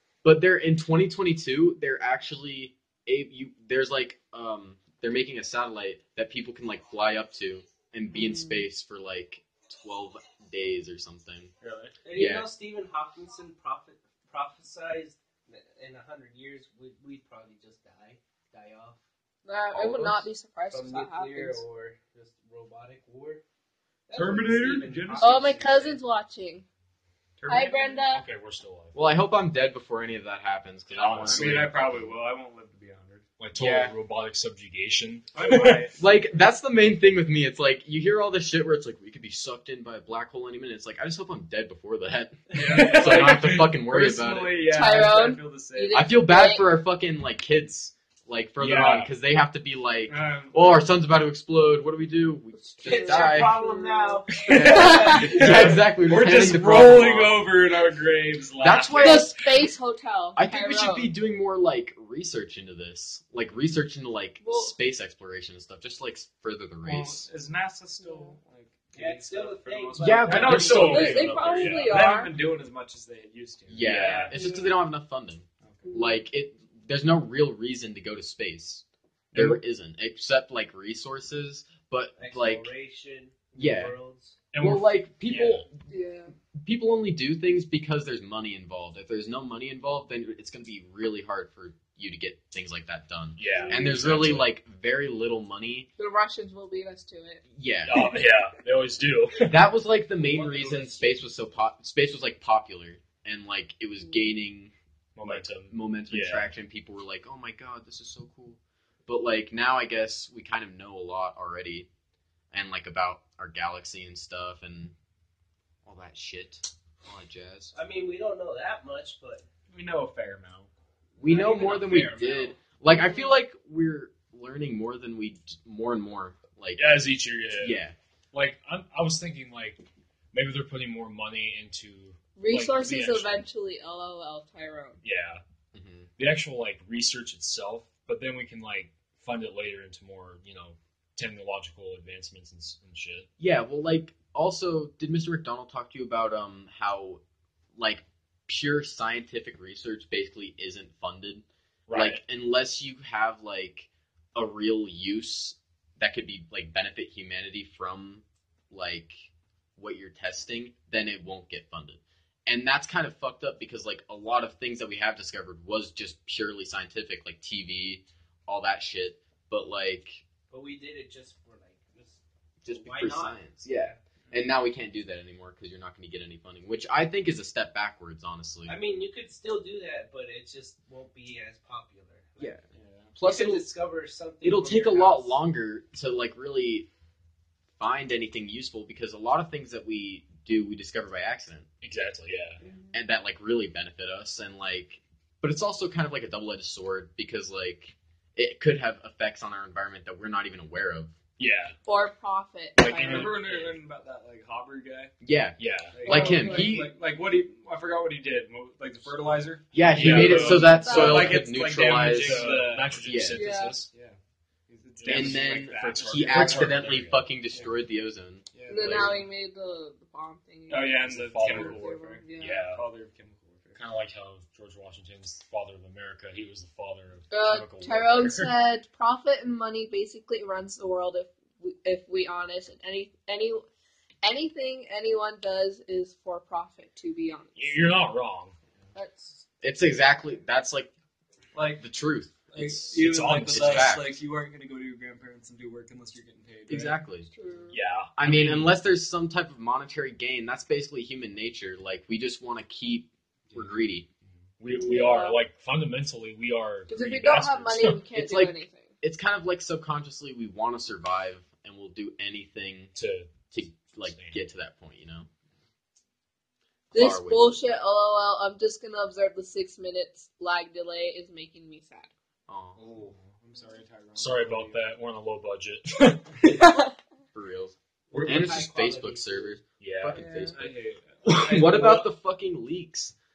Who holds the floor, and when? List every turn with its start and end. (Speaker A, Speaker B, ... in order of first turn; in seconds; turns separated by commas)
Speaker A: 0.2-11.5, Speaker B: 8.1-8.6, Speaker C: 11.6-11.9, Speaker D: 12.0-19.0, Speaker A: 12.1-12.5, Speaker B: 19.4-21.6, Speaker A: 19.7-20.3, Speaker D: 20.7-23.4, Speaker D: 24.1-26.0, Speaker C: 24.1-25.7, Speaker B: 25.2-26.6, Speaker C: 27.4-28.0, Speaker B: 27.5-28.2, Speaker E: 28.1-29.0, Speaker A: 28.9-31.9, Speaker E: 30.9-32.0, Speaker C: 31.2-33.3, Speaker E: 33.4-35.9, Speaker A: 33.5-33.9, Speaker C: 35.3-36.2, Speaker A: 35.9-44.7, Speaker C: 42.5-46.1, Speaker E: 42.5-43.7, Speaker B: 44.7-46.7, Speaker A: 45.9-53.6, Speaker E: 48.6-49.1, Speaker C: 50.1-50.9, Speaker B: 52.5-55.6, Speaker D: 52.8-55.3, Speaker C: 54.3-59.3, Speaker A: 54.5-57.4, Speaker A: 58.6-59.4, Speaker B: 59.0-61.1, Speaker A: 60.4-67.3, Speaker B: 64.4-64.7, Speaker C: 66.8-74.5, Speaker B: 68.0-68.3, Speaker D: 68.9-70.7, Speaker A: 70.0-71.4, Speaker E: 70.3-72.1, Speaker B: 70.9-72.3, Speaker A: 73.7-82.7, Speaker E: 73.8-74.4, Speaker B: 74.3-74.7, Speaker C: 75.6-76.0, Speaker B: 75.8-76.2, Speaker E: 79.3-79.6, Speaker D: 82.2-84.4, Speaker A: 83.5-83.9, Speaker E: 84.5-85.6, Speaker A: 84.6-85.8, Speaker B: 85.9-86.3, Speaker A: 86.5-95.9, Speaker E: 93.4-94.5, Speaker B: 96.0-97.4, Speaker A: 97.5-98.0, Speaker E: 97.8-99.7, Speaker A: 99.5-111.9, Speaker D: 100.2-101.1, Speaker C: 100.6-101.0, Speaker E: 105.2-106.5, Speaker A: 112.5-114.9, Speaker A: 115.8-117.7, Speaker D: 117.7-119.5, Speaker C: 119.7-120.7, Speaker A: 121.2-126.9, Speaker D: 121.2-122.6, Speaker B: 122.9-123.4, Speaker E: 126.8-129.8, Speaker A: 127.6-127.9, Speaker E: 130.3-133.4, Speaker B: 132.4-135.0, Speaker E: 135.0-135.4, Speaker A: 135.7-136.1, Speaker E: 136.2-143.3, Speaker A: 143.4-147.2, Speaker A: 147.8-170.2, Speaker E: 151.9-152.2, Speaker D: 170.5-174.0, Speaker A: 172.6-178.8, Speaker D: 178.7-182.6, Speaker A: 182.4-182.6, Speaker C: 182.7-183.2, Speaker A: 183.2-183.7, Speaker D: 183.2-185.4, Speaker A: 184.4-186.9, Speaker A: 187.8-191.7, Speaker E: 191.8-192.6, Speaker B: 192.6-192.9, Speaker A: 192.9-201.2, Speaker E: 201.4-201.8, Speaker B: 201.8-203.4, Speaker E: 202.8-203.8, Speaker C: 202.9-205.1, Speaker A: 205.2-206.9, Speaker E: 205.6-206.1, Speaker C: 205.9-213.1, Speaker B: 206.1-206.7, Speaker A: 209.7-213.4, Speaker E: 209.9-213.9, Speaker B: 210.8-211.4, Speaker B: 213.3-213.8, Speaker C: 213.9-217.0, Speaker E: 215.0-217.3, Speaker A: 215.1-219.2, Speaker C: 218.5-219.2, Speaker B: 218.7-222.7, Speaker C: 220.7-223.8, Speaker E: 221.0-222.8, Speaker E: 223.7-228.5, Speaker B: 227.3-233.7, Speaker B: 234.2-237.8, Speaker E: 237.6-238.6, Speaker B: 238.9-239.4, Speaker A: 239.6-240.9, Speaker C: 241.5-241.8, Speaker A: 241.8-244.2, Speaker C: 242.5-247.7, Speaker E: 242.9-244.0, Speaker A: 246.7-247.3, Speaker B: 247.3-247.8, Speaker E: 247.7-248.8, Speaker A: 248.2-254.1, Speaker C: 253.5-254.4, Speaker E: 254.6-258.1, Speaker B: 254.7-255.4, Speaker B: 256.9-258.9, Speaker A: 257.9-262.9, Speaker E: 262.9-263.4, Speaker A: 263.5-265.3, Speaker E: 264.1-264.4, Speaker A: 266.9-267.6, Speaker B: 266.9-272.1, Speaker A: 272.5-272.8, Speaker C: 272.8-274.8, Speaker E: 274.1-276.6, Speaker B: 276.4-276.9, Speaker A: 277.3-280.7, Speaker D: 278.1-279.6, Speaker C: 278.1-278.6, Speaker E: 279.8-280.4, Speaker B: 280.1-280.6, Speaker C: 280.5-282.1, Speaker A: 281.2-283.1